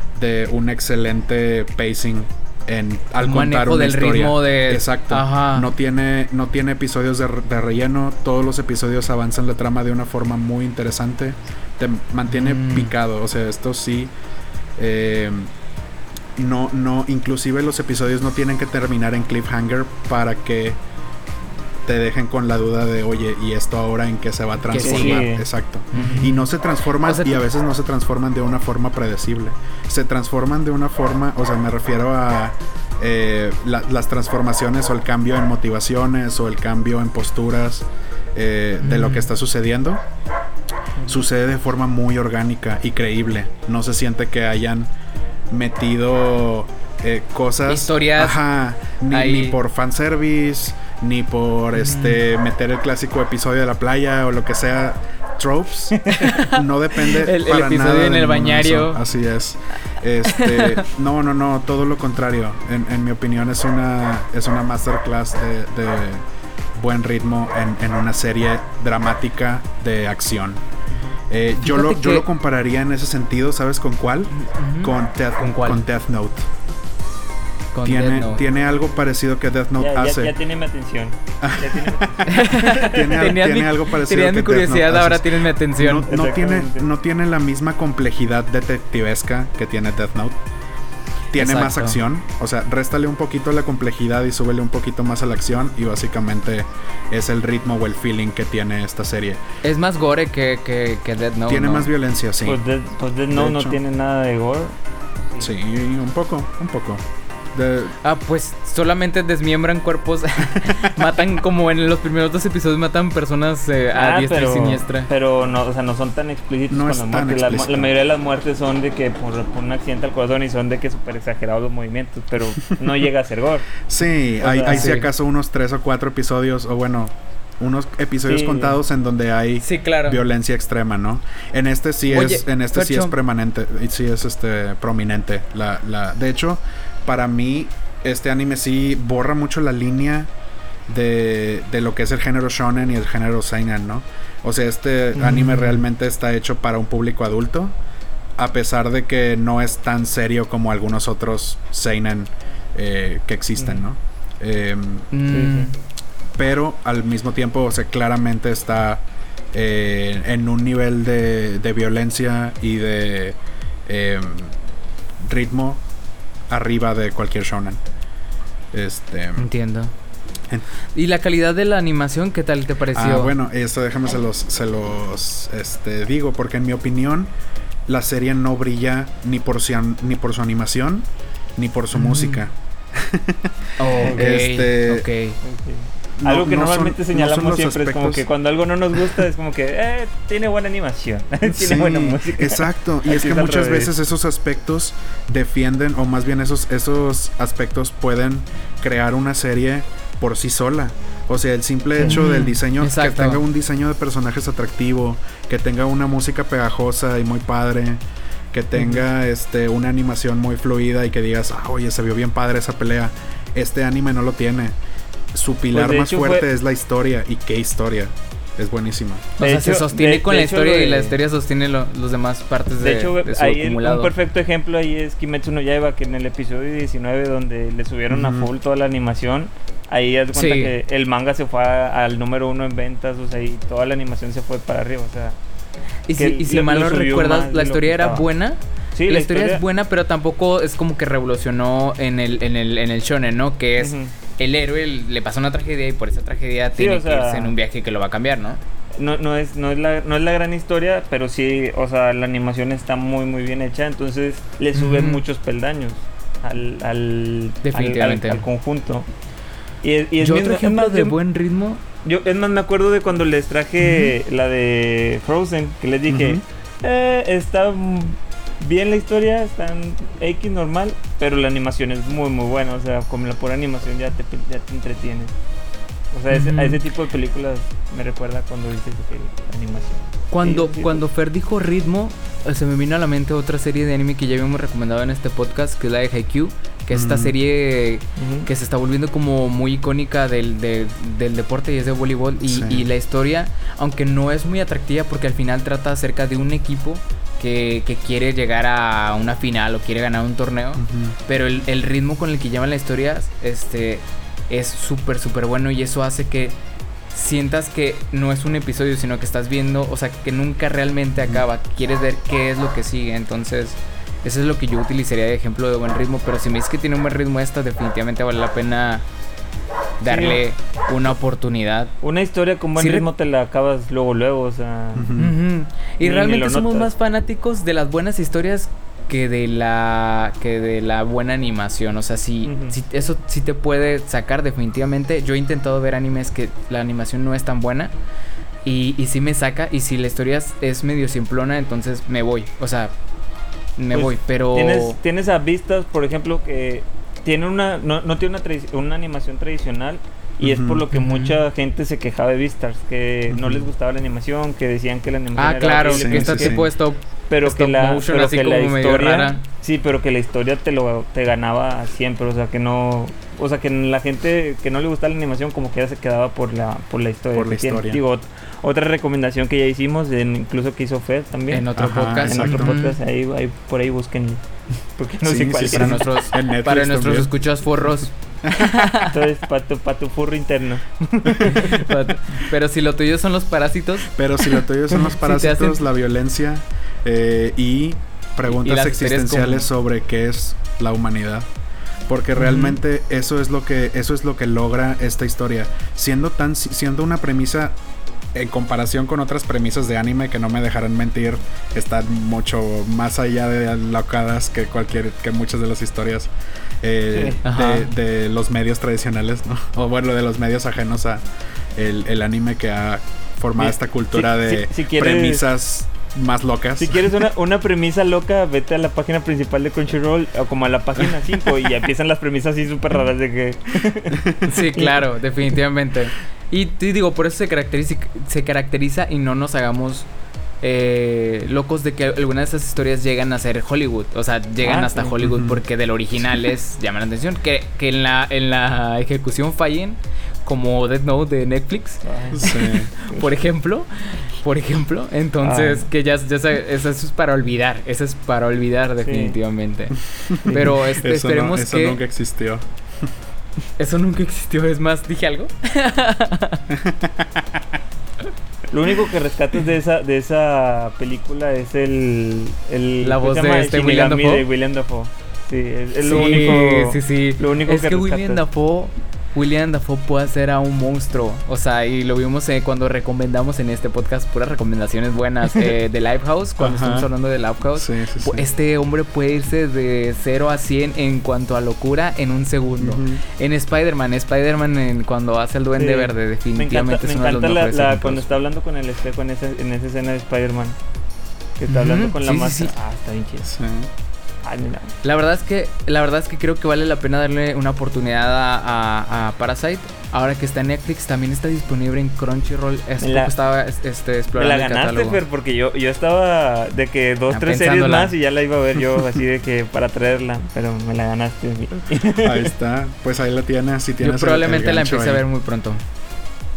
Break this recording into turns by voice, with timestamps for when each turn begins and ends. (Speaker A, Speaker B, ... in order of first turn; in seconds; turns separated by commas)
Speaker A: 0.1-14.1, Speaker B: 3.2-5.7, Speaker B: 12.3-12.9, Speaker A: 14.8-15.5, Speaker A: 16.4-20.8, Speaker A: 21.9-40.0, Speaker B: 24.7-25.3, Speaker C: 24.8-26.2, Speaker B: 25.9-26.4, Speaker B: 27.0-27.4, Speaker B: 38.8-39.3, Speaker A: 41.1-44.9, Speaker A: 45.5-66.2, Speaker B: 47.7-48.4, Speaker B: 49.1-49.6, Speaker B: 51.8-52.2, Speaker B: 56.2-59.0, Speaker B: 60.3-60.8, Speaker A: 66.8-70.6, Speaker A: 71.3-76.5, Speaker B: 71.6-72.2, Speaker B: 74.4-75.8, Speaker B: 77.7-78.4, Speaker A: 77.8-80.3, Speaker C: 79.8-83.1, Speaker A: 81.4-90.4, Speaker B: 82.3-86.1, Speaker C: 86.1-86.8, Speaker A: 91.3-99.4, Speaker B: 91.3-92.0, Speaker B: 99.6-101.9, Speaker A: 101.5-102.6, Speaker C: 102.5-104.7, Speaker A: 103.3-103.8, Speaker A: 105.4-108.0, Speaker B: 108.0-115.1, Speaker A: 110.5-110.9, Speaker C: 113.9-123.8, Speaker A: 116.7-117.9, Speaker A: 123.9-140.3, Speaker C: 124.4-125.0, Speaker B: 124.6-125.0, Speaker C: 128.3-128.8, Speaker B: 129.6-130.2, Speaker B: 132.1-133.2, Speaker A: 140.9-147.7, Speaker C: 145.2-145.6, Speaker A: 148.4-155.1, Speaker B: 155.1-155.8, Speaker C: 155.3-155.7, Speaker A: 156.4-164.6, Speaker A: 165.2-165.8, Speaker A: 166.5-167.8, Speaker A: 168.7-169.5, Speaker B: 169.4-169.9, Speaker B: 170.9-173.3, Speaker A: 172.9-177.3, Speaker A: 177.9-185.1, Speaker B: 181.9-182.4, Speaker B: 183.8-185.4, Speaker C: 185.4-193.9, Speaker A: 186.2-188.3, Speaker A: 189.0-189.2, Speaker A: 191.5-208.0, Speaker B: 202.1-203.4, Speaker A: 208.5-214.8, Speaker A: 215.3-219.3, Speaker C: 215.7-216.5, Speaker C: 219.4-221.2, Speaker B: 219.4-224.1, Speaker C: 222.8-235.4, Speaker A: 228.1-228.5, Speaker B: 230.3-230.7, Speaker B: 236.1-248.6, Speaker C: 236.2-238.2, Speaker C: 239.0-239.6, Speaker C: 243.8-244.1, Speaker C: 246.8-247.6, Speaker C: 249.0-259.1, Speaker B: 254.8-255.2, Speaker B: 257.6-258.4, Speaker C: 259.8-261.1, Speaker B: 260.2-261.8, Speaker C: 262.0-275.3, Speaker B: 263.8-264.1, Speaker A: 266.1-266.4, Speaker C: 276.1-281.0, Speaker B: 276.3-276.8, Speaker B: 280.3-306.6, Speaker A: 286.9-287.4, Speaker C: 288.2-288.5, Speaker A: 292.4-292.9, Speaker A: 300.8-301.2, Speaker B: 307.1-319.1, Speaker B: 320.0-321.9, Speaker C: 320.1-320.4, Speaker C: 322.0-325.1, Speaker B: 322.8-323.1, Speaker A: 325.0-325.3, Speaker B: 325.2-337.9, Speaker C: 326.0-326.9, Speaker C: 332.4-332.8, Speaker B: 338.6-342.9, Speaker B: 343.8-345.0, Speaker C: 343.9-356.6, Speaker A: 350.4-350.8, Speaker B: 350.9-351.4, Speaker A: 353.3-353.6, Speaker B: 355.4-359.4, Speaker A: 355.9-356.7, Speaker C: 357.3-371.7, Speaker A: 367.3-368.0, Speaker B: 371.5-373.0, Speaker A: 371.8-372.7, Speaker C: 372.2-374.4, Speaker C: 375.0-376.0, Speaker A: 375.2-377.3, Speaker B: 375.6-379.1, Speaker C: 379.1-381.9, Speaker B: 381.4-384.1, Speaker A: 384.1-391.5, Speaker B: 384.9-385.8, Speaker B: 388.5-389.7, Speaker A: 392.1-397.8, Speaker B: 392.4-392.8, Speaker A: 398.3-406.3, Speaker A: 406.8-411.2, Speaker C: 407.1-407.4, Speaker B: 407.4-407.9, Speaker A: 411.8-417.1, Speaker C: 413.6-415.5, Speaker C: 416.8-425.1, Speaker B: 424.5-430.1, Speaker B: 430.6-452.0, Speaker C: 434.6-435.2, Speaker A: 435.2-435.6, Speaker C: 442.0-443.2, Speaker A: 442.4-442.9, Speaker C: 445.4-445.9, Speaker C: 449.1-449.4, Speaker C: 450.4-450.8, Speaker A: 450.9-452.7, Speaker B: 453.8-456.6, Speaker A: 456.7-457.6, Speaker C: 458.7-468.4, Speaker B: 463.0-464.4, Speaker B: 466.0-488.3, Speaker A: 476.6-477.1, Speaker A: 477.8-478.5, Speaker A: 482.8-483.2, Speaker C: 485.8-490.8, Speaker C: 491.6-493.5, Speaker B: 491.7-492.7, Speaker A: 493.4-493.9, Speaker C: 494.4-494.9, Speaker B: 495.0-505.2, Speaker C: 503.0-503.3, Speaker C: 504.4-512.5, Speaker B: 507.3-508.1, Speaker A: 512.1-515.2, Speaker B: 514.0-515.8